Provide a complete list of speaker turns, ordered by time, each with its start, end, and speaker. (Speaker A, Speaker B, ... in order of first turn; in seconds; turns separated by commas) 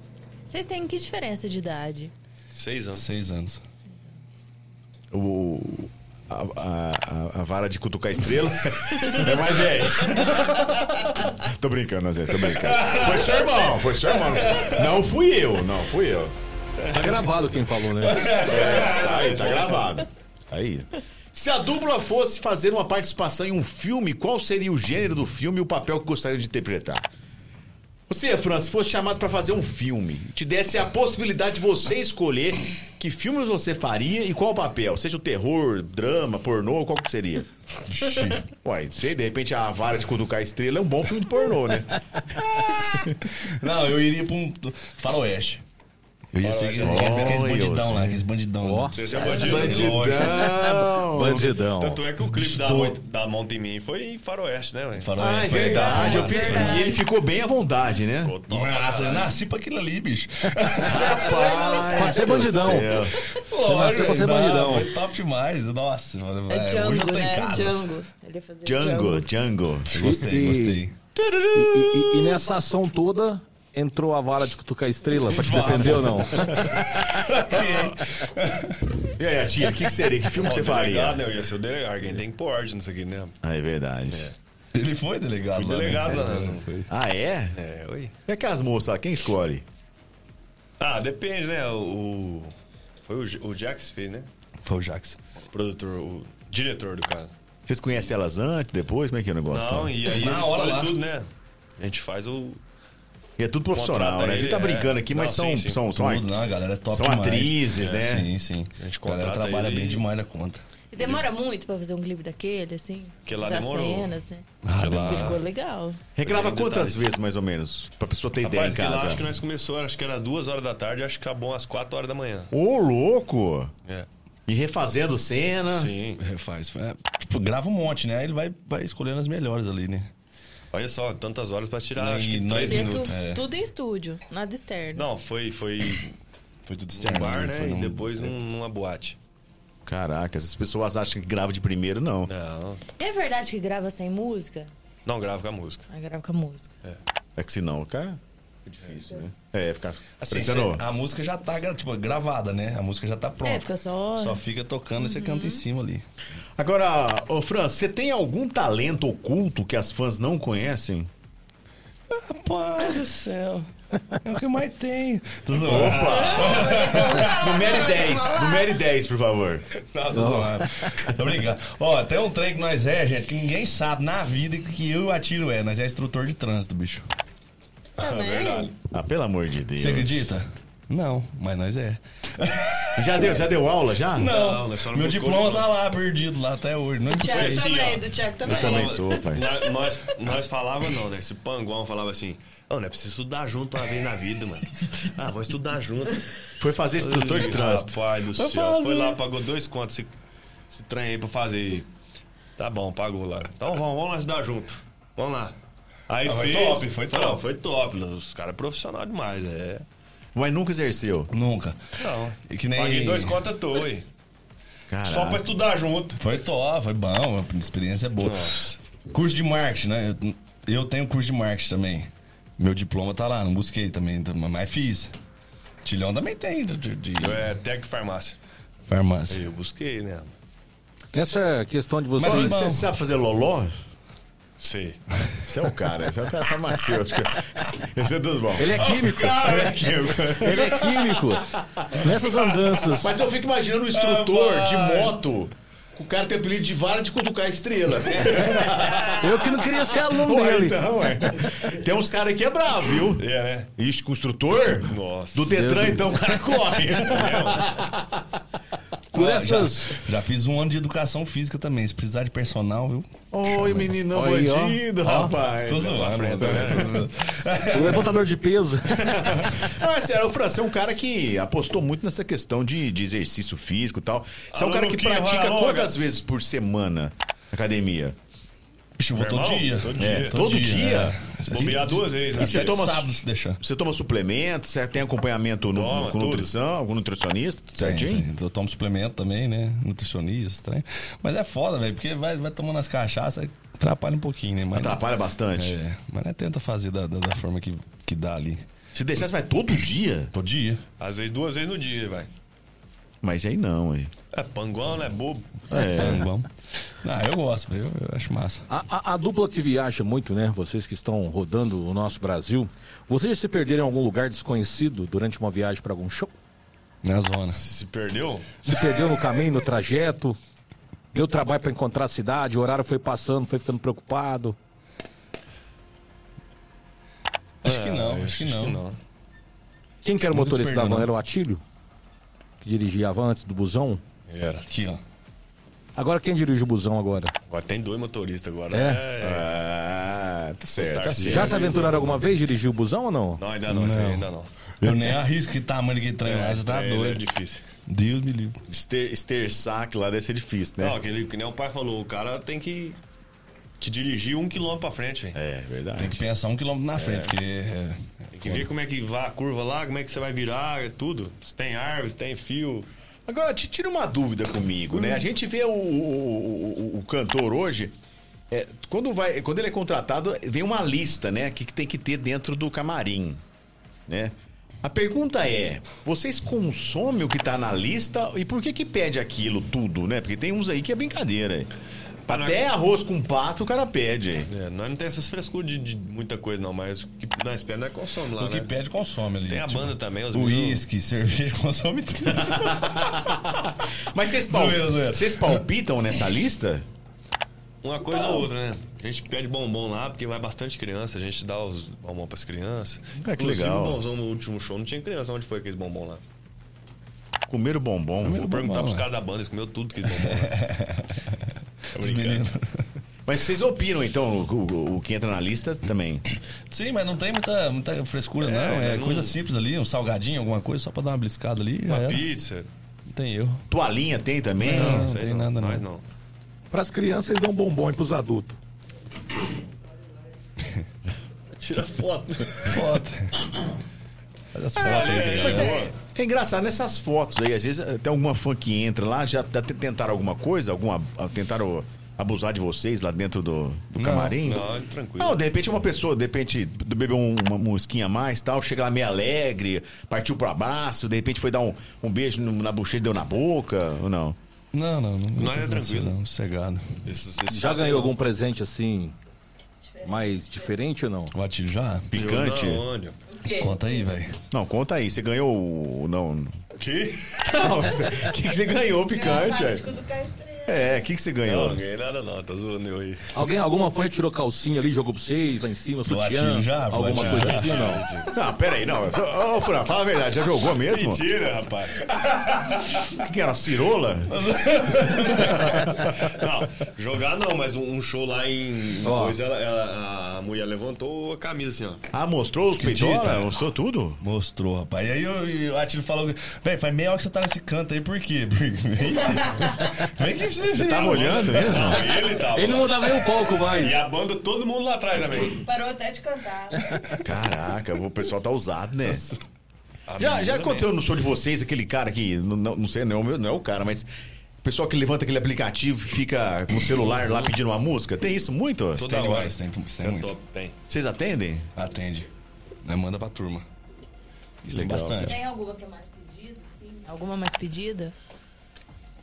Speaker A: 0.5-2.1, Speaker B: 2.5-3.0, Speaker C: 2.9-3.6, Speaker D: 5.1-16.3, Speaker C: 14.5-14.8, Speaker B: 16.9-17.2, Speaker E: 16.9-18.4, Speaker C: 18.0-18.8, Speaker B: 18.1-20.0, Speaker D: 18.5-27.0, Speaker D: 28.1-37.5, Speaker C: 37.9-38.4, Speaker D: 38.5-41.9, Speaker C: 43.3-45.6, Speaker C: 46.3-50.5, Speaker B: 46.4-47.5, Speaker D: 46.8-48.2, Speaker E: 48.6-49.0, Speaker B: 48.9-50.1, Speaker D: 49.2-51.5, Speaker E: 50.4-52.1, Speaker B: 51.8-56.5, Speaker C: 52.2-53.0, Speaker C: 55.0-57.0, Speaker D: 55.2-58.4, Speaker A: 55.2-57.1, Speaker B: 58.2-59.3, Speaker C: 58.5-61.3, Speaker D: 60.8-63.2, Speaker A: 60.9-62.6, Speaker E: 61.4-63.0, Speaker C: 63.4-67.8, Speaker E: 63.5-64.9, Speaker A: 66.5-69.3, Speaker D: 68.7-70.0, Speaker C: 69.9-71.0, Speaker E: 69.9-70.8, Speaker D: 71.2-72.3, Speaker E: 71.5-76.8, Speaker C: 75.2-76.6, Speaker C: 77.1-78.8, Speaker D: 77.6-77.9, Speaker D: 79.2-81.2, Speaker B: 80.4-83.3, Speaker D: 83.4-84.3, Speaker B: 84.1-84.3, Speaker C: 84.7-86.9, Speaker B: 85.5-86.7, Speaker D: 86.9-87.6, Speaker B: 87.5-88.1, Speaker D: 88.3-89.7, Speaker B: 90.8-92.5, Speaker B: 93.0-94.3, Speaker C: 94.6-95.2, Speaker B: 95.5-97.3, Speaker D: 97.7-99.9, Speaker B: 99.5-102.6, Speaker C: 100.1-101.0, Speaker D: 103.4-106.3, Speaker B: 103.7-105.8, Speaker C: 105.9-110.6, Speaker D: 106.9-108.3, Speaker B: 107.8-108.0, Speaker B: 108.8-110.0, Speaker A: 110.9-116.0, Speaker B: 111.0-111.2, Speaker B: 113.3-114.1, Speaker C: 114.6-115.4, Speaker B: 114.8-115.4, Speaker D: 116.2-119.3, Speaker B: 116.2-117.1, Speaker B: 118.4-122.5, Speaker D: 122.5-123.7, Speaker D: 124.5-125.9, Speaker B: 125.7-126.2, Speaker C: 126.2-130.1, Speaker B: 130.7-133.2, Speaker C: 132.0-133.4, Speaker A: 132.6-135.1, Speaker B: 134.9-136.1, Speaker C: 136.7-138.3, Speaker B: 136.9-139.2, Speaker D: 139.9-142.3, Speaker B: 142.3-142.8, Speaker A: 143.0-144.7, Speaker B: 145.1-145.9, Speaker A: 145.9-146.7, Speaker D: 147.4-150.8, Speaker B: 150.2-150.6, Speaker C: 150.3-156.1, Speaker A: 153.4-154.4, Speaker A: 155.0-155.7, Speaker D: 156.6-161.1, Speaker C: 162.1-163.7, Speaker C: 164.2-167.6, Speaker D: 165.6-169.7, Speaker B: 165.6-166.7, Speaker A: 166.5-168.8, Speaker C: 169.8-177.1, Speaker E: 170.1-171.0, Speaker A: 178.0-178.8, Speaker B: 178.0-178.7, Speaker D: 178.9-180.3, Speaker C: 179.8-183.3, Speaker D: 183.0-184.3, Speaker C: 184.1-187.7, Speaker B: 184.3-185.7, Speaker A: 187.1-189.4, Speaker B: 187.2-196.2, Speaker D: 188.4-189.5, Speaker D: 196.6-198.0, Speaker B: 197.0-200.1, Speaker C: 198.3-199.2, Speaker B: 200.7-201.9, Speaker B: 202.6-205.6, Speaker B: 206.1-209.9, Speaker C: 206.2-207.4, Speaker D: 210.3-211.3, Speaker C: 211.3-211.8, Speaker B: 212.0-214.1, Speaker C: 212.4-213.4, Speaker D: 214.9-215.4, Speaker B: 215.0-216.2, Speaker C: 216.2-218.5, Speaker B: 218.2-218.8, Speaker C: 219.1-225.1, Speaker C: 225.8-227.4, Speaker B: 227.2-228.4, Speaker C: 228.9-229.4, Speaker B: 229.3-230.3, Speaker E: 231.1-232.7, Speaker C: 232.2-232.9, Speaker D: 232.2-233.8, Speaker B: 234.6-235.0, Speaker D: 235.5-241.0, Speaker E: 238.6-239.6, Speaker B: 238.8-240.4, Speaker E: 240.4-243.1, Speaker D: 241.5-242.1, Speaker D: 243.0-249.4, Speaker B: 243.9-245.2, Speaker E: 249.2-250.9, Speaker D: 250.1-253.3, Speaker B: 253.2-253.7, Speaker D: 253.8-258.1, Speaker B: 254.9-255.8, Speaker E: 255.5-256.4, Speaker B: 257.1-257.8, Speaker E: 259.1-260.0, Speaker C: 259.1-263.1, Speaker D: 263.3-266.9, Speaker E: 264.0-264.9, Speaker C: 265.0-268.1, Speaker B: 265.7-267.0, Speaker E: 267.7-269.6, Speaker D: 269.1-278.2, Speaker B: 274.5-275.9, Speaker C: 279.0-283.6, Speaker B: 279.1-280.7, Speaker D: 280.0-281.8, Speaker B: 281.5-282.9, Speaker D: 282.3-288.3, Speaker B: 285.7-286.5, Speaker C: 287.8-295.0, Speaker D: 294.7-295.7, Speaker C: 295.5-298.6, Speaker D: 298.9-300.3, Speaker C: 300.3-300.8, Speaker B: 301.0-302.3, Speaker D: 303.2-304.1, Speaker B: 304.3-305.7, Speaker D: 305.7-306.2, Speaker C: 305.9-306.5, Speaker C: 307.0-308.7, Speaker E: 308.7-316.3, Speaker C: 317.0-317.6, Speaker B: 317.5-318.5, Speaker E: 318.6-320.4, Speaker E: 321.1-324.6, Speaker C: 327.6-328.8, Speaker B: 327.6-329.0, Speaker E: 330.0-331.6, Speaker C: 330.3-331.1, Speaker E: 332.6-334.0, Speaker B: 334.3-334.7, Speaker C: 334.7-335.0, Speaker E: 336.0-337.3, Speaker B: 337.5-339.5, Speaker E: 338.7-339.1, Speaker D: 339.2-341.7, Speaker B: 340.8-342.2, Speaker E: 341.2-343.4, Speaker B: 343.4-344.5, Speaker C: 343.7-344.3, Speaker C: 344.8-347.2, Speaker B: 346.2-347.6, Speaker C: 347.9-348.6, Speaker D: 348.7-351.0, Speaker B: 350.8-353.0, Speaker B: 353.8-355.4, Speaker D: 355.3-356.2, Speaker C: 356.0-358.7, Speaker B: 358.4-362.9, Speaker D: 363.3-367.9, Speaker D: 368.5-373.4, Speaker D: 374.1-381.7, Speaker B: 382.3-382.6, Speaker D: 382.3-384.5, Speaker B: 384.5-388.7, Speaker C: 388.4-392.9, Speaker B: 389.5-390.8, Speaker D: 392.5-393.6, Speaker D: 394.1-396.9, Speaker C: 394.5-395.6, Speaker B: 397.8-406.2, Speaker D: 403.2-404.0, Speaker D: 407.5-408.5, Speaker C: 408.2-409.1, Speaker B: 408.3-410.6, Speaker C: 410.2-412.9, Speaker B: 411.9-412.4, Speaker D: 413.3-416.2, Speaker C: 416.7-422.3, Speaker B: 418.4-419.4, Speaker B: 421.9-422.7, Speaker C: 423.1-423.6, Speaker D: 423.7-425.1, Speaker C: 424.6-425.8, Speaker B: 424.6-426.0, Speaker E: 426.7-428.6, Speaker B: 431.6-432.8, Speaker C: 432.6-433.4, Speaker C: 434.5-435.8, Speaker B: 434.8-435.9, Speaker D: 435.0-444.7, Speaker C: 443.9-444.4, Speaker B: 444.4-445.4, Speaker D: 445.2-454.4, Speaker C: 454.7-457.0, Speaker B: 455.4-456.2, Speaker B: 457.1-458.1, Speaker E: 457.5-459.2, Speaker A: 459.9-460.7, Speaker E: 460.0-461.3, Speaker C: 461.3-462.1, Speaker D: 462.1-462.9, Speaker B: 462.1-463.2, Speaker A: 463.3-464.1, Speaker C: 463.6-464.4, Speaker D: 464.5-466.6, Speaker B: 466.8-467.5, Speaker D: 467.5-469.9, Speaker A: 469.0-471.1, Speaker D: 470.7-471.8, Speaker B: 471.4-473.2, Speaker E: 473.3-478.1, Speaker C: 476.0-477.9, Speaker B: 477.1-478.3, Speaker D: 478.3-481.2, Speaker B: 480.9-482.0, Speaker C: 482.2-482.6, Speaker D: 483.2-484.3, Speaker C: 484.3-485.7, Speaker B: 486.2-492.0, Speaker E: 489.1-489.4, Speaker D: 492.1-494.2, Speaker C: 492.8-493.5, Speaker C: 494.2-501.7, Speaker A: 499.2-499.5, Speaker D: 500.8-502.1, Speaker B: 501.0-505.7, Speaker E: 502.1-504.0, Speaker A: 505.6-507.0, Speaker D: 507.2-509.2, Speaker B: 510.1-510.9, Speaker D: 510.2-514.1, Speaker D: 514.6-519.1, Speaker B: 517.2-517.5, Speaker B: 519.0-520.8, Speaker C: 519.0-520.3, Speaker D: 520.9-521.7, Speaker C: 521.8-522.3, Speaker C: 522.8-523.7, Speaker C: 524.6-525.4, Speaker D: 524.7-525.4, Speaker A: 525.2-528.1